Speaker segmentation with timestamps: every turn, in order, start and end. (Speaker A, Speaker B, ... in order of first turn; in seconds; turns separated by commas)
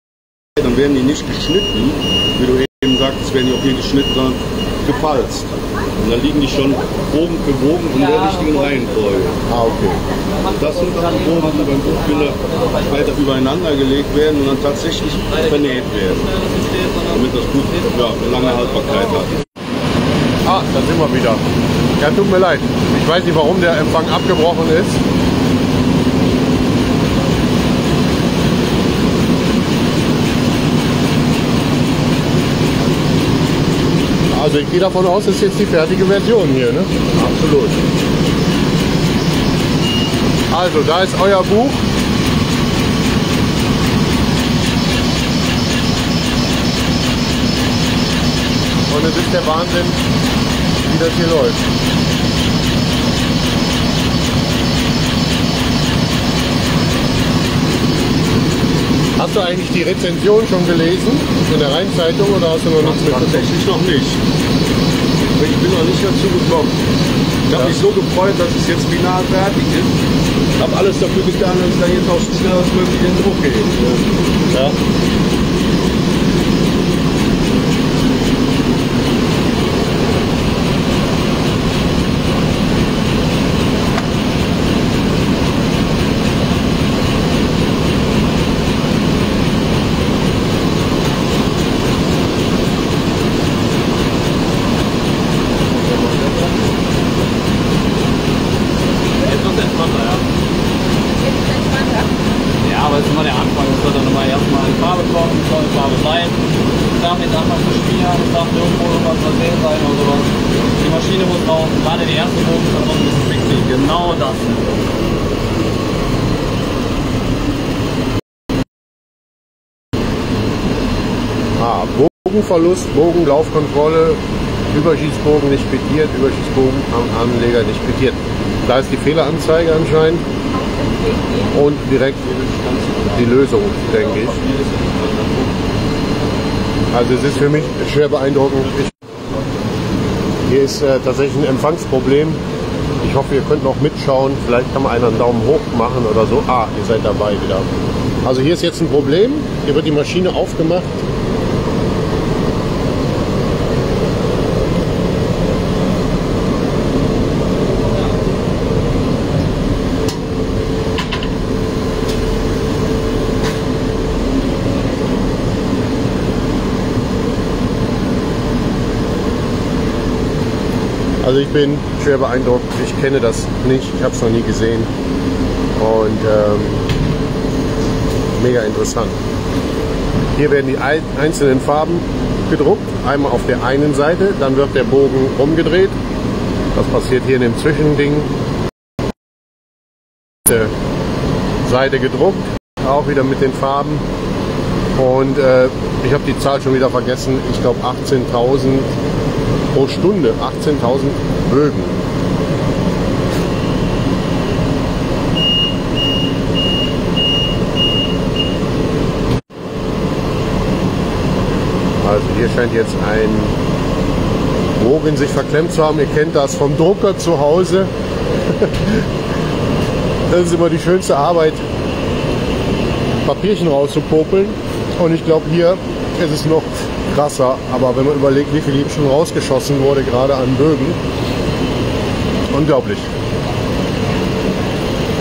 Speaker A: 0.6-9.4, Speaker B: 8.2-8.8, Speaker C: 9.5-10.0, Speaker B: 9.5-10.0, Speaker D: 10.3-13.2, Speaker A: 10.5-16.2, Speaker D: 15.3-19.3, Speaker A: 17.1-19.3, Speaker C: 20.4-21.4, Speaker C: 22.0-25.0, Speaker C: 34.3-37.7, Speaker C: 40.5-41.8, Speaker C: 48.9-50.0, Speaker C: 50.8-51.6, Speaker C: 59.2-63.5, Speaker A: 62.8-64.2, Speaker A: 65.3-66.8, Speaker A: 67.5-69.9, Speaker A: 70.6-74.0, Speaker D: 95.7-96.5, Speaker D: 99.2-100.2, Speaker B: 101.2-102.1, Speaker D: 102.6-106.4, Speaker D: 107.0-114.7, Speaker C: 121.6-124.2, Speaker C: 124.7-130.2, Speaker B: 130.5-131.5, Speaker C: 131.5-132.2, Speaker A: 132.2-135.5, Speaker C: 133.2-134.4, Speaker C: 136.9-138.9, Speaker C: 140.5-142.4, Speaker C: 143.0-147.7, Speaker C: 148.2-151.0, Speaker C: 171.2-174.9, Speaker C: 175.8-176.8, Speaker C: 178.4-179.2, Speaker C: 180.3-185.9, Speaker C: 186.7-188.3, Speaker C: 190.4-190.7, Speaker C: 191.6-194.0, Speaker C: 194.9-198.9, Speaker C: 199.7-202.0, Speaker C: 212.0-213.5, Speaker C: 214.8-217.9, Speaker C: 218.5-219.1, Speaker C: 220.3-221.6, Speaker C: 223.2-231.0, Speaker C: 232.5-233.1